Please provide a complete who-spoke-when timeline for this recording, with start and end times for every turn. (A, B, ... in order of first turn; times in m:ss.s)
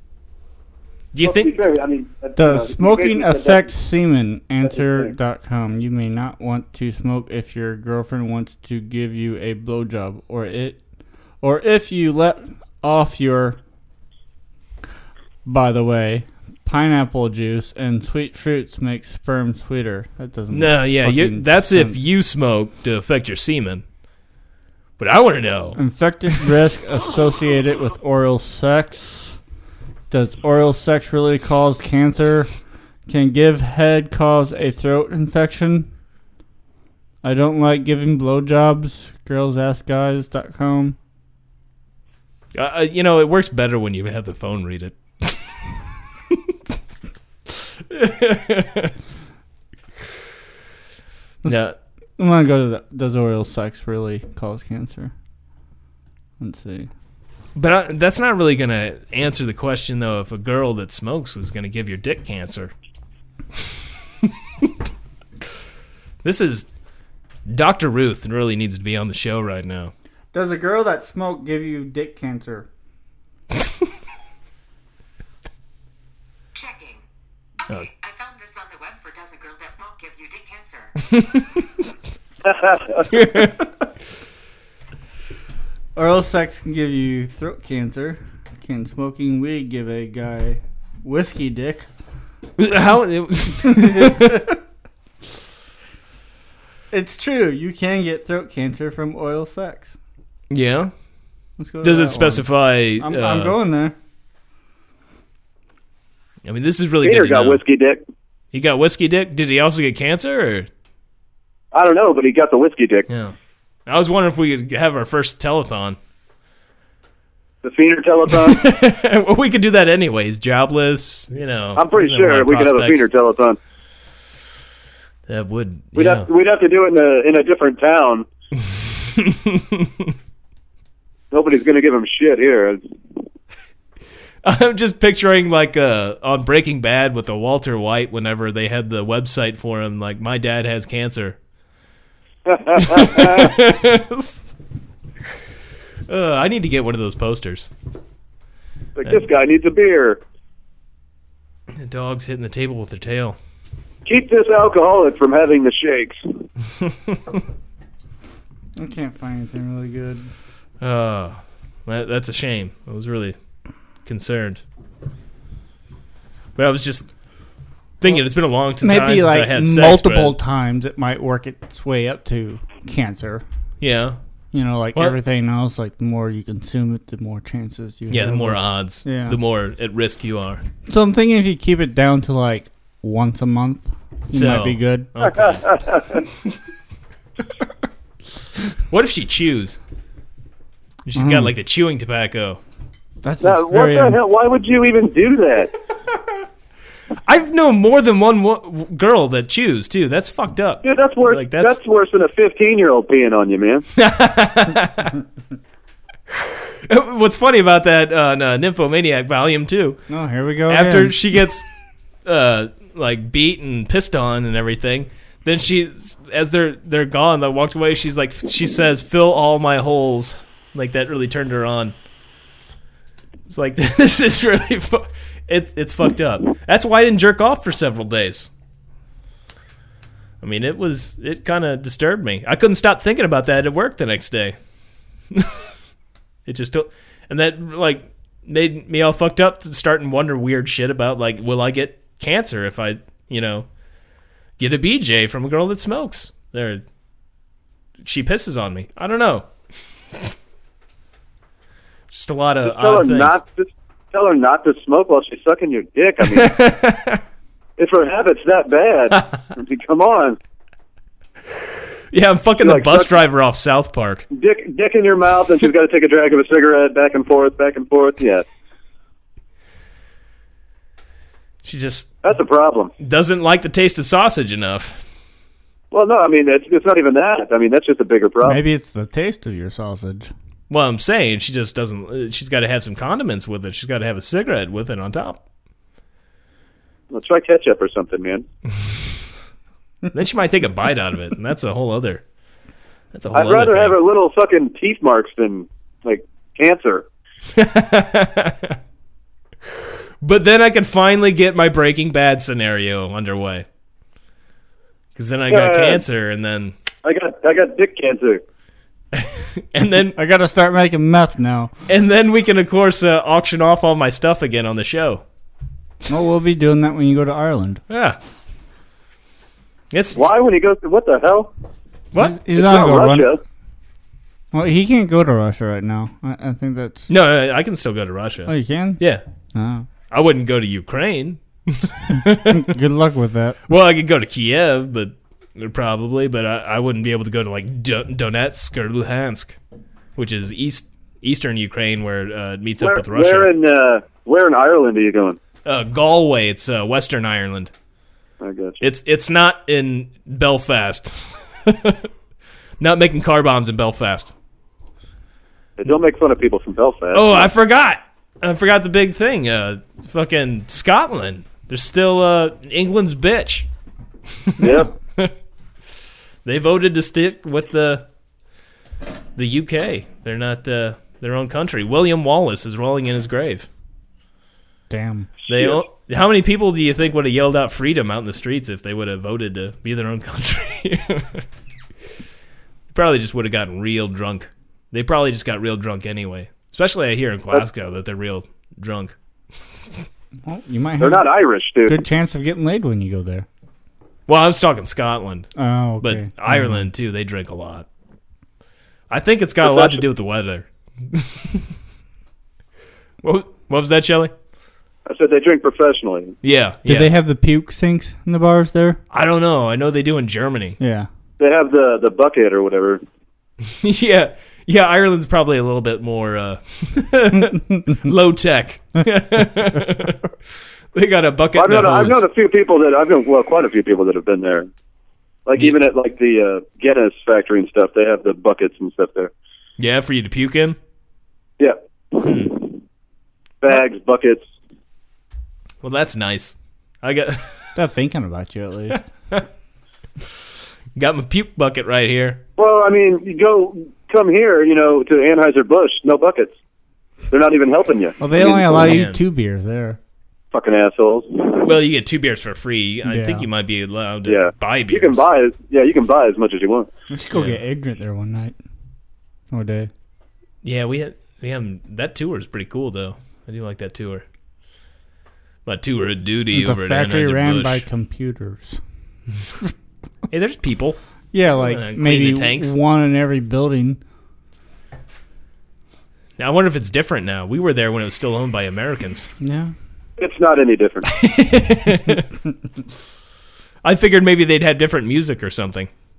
0:01.1-0:01.5 A
0:01.2-0:03.7 B
0:02.4-0:10.8 C
0:04.6-0:05.2 B
0:11.4-0:13.6 C
0:15.4-0:22.0 C
0:20.5-0:23.8 A
0:25.0-0:25.8 A
0:25.8-0:29.4 C
0:30.1-0:32.5 C
0:33.1-0:35.9 C
0:37.2-0:41.0 C
0:42.5-0:45.4 A
0:47.5-0:48.9 A
0:51.5-0:51.8 A
0:52.2-0:55.1 C
0:56.4-0:56.9 C
0:57.6-1:02.7 A
1:04.2-1:04.7 A
1:06.2-1:06.7 A
1:07.5-1:09.9 A
1:10.3-1:12.7 C
1:16.6-1:17.0 D
1:17.6-1:21.0 D
1:21.1-1:21.6 A
1:22.4-1:23.1 B
1:23.1-1:23.7 A
1:26.0-1:31.9 C
1:32.6-1:34.5 A
1:33.7-1:34.4 C
1:36.9-1:40.0 C
1:40.5-1:40.9 A
1:41.6-1:42.5 C
1:41.8-1:43.6 A
1:43.0-1:44.0 C
1:46.4-1:47.6 A
1:47.0-1:48.0 B
1:48.5-1:50.7 A
1:51.7-1:53.1 B
1:53.1-1:53.4 A
1:53.9-1:56.0 A
1:57.6-1:58.6 B
1:58.3-2:03.0 A
2:01.8-2:03.6 B
2:05.3-2:06.3 A
2:06.0-2:08.3 B
2:08.7-2:10.1 A
2:11.3-2:12.8 B
2:14.4-2:21.4 A
2:22.5-2:23.6 B
2:22.8-2:24.6 A
2:26.1-2:27.7 A
2:29.0-2:30.2 B
2:31.8-2:33.4 A
2:34.1-2:36.2 B
2:38.8-2:40.3 C
2:40.8-2:43.4 A
2:44.1-2:44.6 A
2:46.6-2:47.1 A
2:48.0-2:50.4 A
2:48.8-2:53.4 C
2:53.8-2:54.2 A
2:54.5-2:59.4 C
2:58.1-3:00.6 A
3:00.9-3:05.1 C
3:04.3-3:05.6 A
3:05.2-3:06.2 B
3:08.9-3:09.8 A
3:11.1-3:12.6 A
3:11.2-3:11.5 C
3:13.2-3:14.2 C
3:13.4-3:15.7 B
3:17.3-3:21.8 A
3:20.8-3:23.9 B
3:24.0-3:25.2 A
3:26.8-3:30.0 A
3:30.1-3:31.2 C
3:30.7-3:31.7 A
3:32.2-3:41.9 A
3:43.5-3:48.5 A
3:50.4-3:54.6 A
3:55.3-3:55.6 A
3:56.5-4:03.7 A
4:04.6-4:06.8 A
4:08.0-4:09.5 A
4:12.1-4:13.4 A
4:12.6-4:16.6 B
4:16.3-4:17.2 A
4:17.8-4:20.4 B
4:22.1-4:24.3 A
4:22.6-4:23.1 B
4:24.3-4:28.4 B
4:31.6-4:32.2 A
4:32.2-4:32.9 B
4:33.0-4:35.0 A
4:35.9-4:38.6 B
4:38.4-4:40.3 C
4:40.7-4:45.4 A
4:47.1-4:48.5 B
4:50.1-4:52.2 A
4:53.1-4:54.0 A
4:53.3-4:57.1 B
4:57.6-4:58.8 A
5:00.2-5:03.7 A
5:05.2-5:06.7 A
5:05.5-5:06.0 B
5:07.0-5:08.4 B
5:09.1-5:10.2 A
5:10.2-5:11.7 C
5:11.9-5:15.2 A
5:16.1-5:17.8 C
5:17.9-5:18.2 A
5:19.9-5:20.2 A
5:20.2-5:21.5 B
5:22.2-5:23.3 C
5:22.5-5:23.4 B
5:24.5-5:27.1 C
5:27.1-5:29.2 A
5:28.5-5:29.0 C
5:29.5-5:29.9 C
5:30.1-5:32.7 A
5:32.4-5:33.6 C
5:33.7-5:39.6 A
5:40.2-5:43.5 A
5:42.8-5:45.4 B
5:45.6-5:47.7 A
5:48.4-5:48.8 B
5:48.8-5:52.1 A
5:52.8-5:54.3 A
5:55.8-5:57.5 B
5:57.1-6:03.7 A
6:04.4-6:05.3 A
6:04.6-6:04.9 B
6:06.4-6:08.1 A
6:09.4-6:13.7 A
6:14.9-6:15.3 C
6:15.5-6:15.8 B
6:15.5-6:21.5 A
6:22.9-6:29.1 A
6:30.5-6:31.3 C
6:31.0-6:32.0 B
6:31.9-6:33.5 C
6:34.3-6:35.5 A
6:35.6-6:36.9 C
6:36.0-6:37.9 A
6:39.1-6:41.6 A
6:39.6-6:40.0 B
6:43.2-6:44.3 A
6:45.1-6:46.4 B
6:46.4-6:47.1 A
6:46.9-6:49.0 C
6:49.1-6:50.8 A
6:50.8-6:51.1 C
6:51.4-6:53.0 B
6:53.7-7:00.2 A
6:57.4-6:57.8 C
7:00.9-7:02.2 A
7:01.6-7:04.7 B
7:05.5-7:09.3 B
7:09.8-7:10.8 A
7:11.6-7:12.8 B
7:12.2-7:12.5 A
7:13.6-7:14.5 B
7:15.8-7:17.6 A
7:17.8-7:19.0 C
7:19.0-7:19.4 A
7:21.0-7:22.4 A
7:22.6-7:26.6 B
7:27.3-7:28.8 B
7:28.2-7:30.0 C
7:28.7-7:29.2 A
7:30.5-7:31.7 B
7:31.6-7:35.2 A
7:33.0-7:33.5 C
7:34.3-7:36.9 B
7:37.1-7:38.6 C
7:37.3-7:37.6 A
7:39.5-7:39.9 C
7:40.6-7:44.2 A
7:45.7-7:47.8 A
7:46.5-7:48.8 C
7:50.3-7:51.0 A
7:51.3-7:54.0 C
7:51.6-7:52.8 A
7:56.4-7:59.3 A
7:59.4-7:59.7 C
8:00.2-8:01.1 B
8:01.1-8:02.3 A
8:03.8-8:05.9 A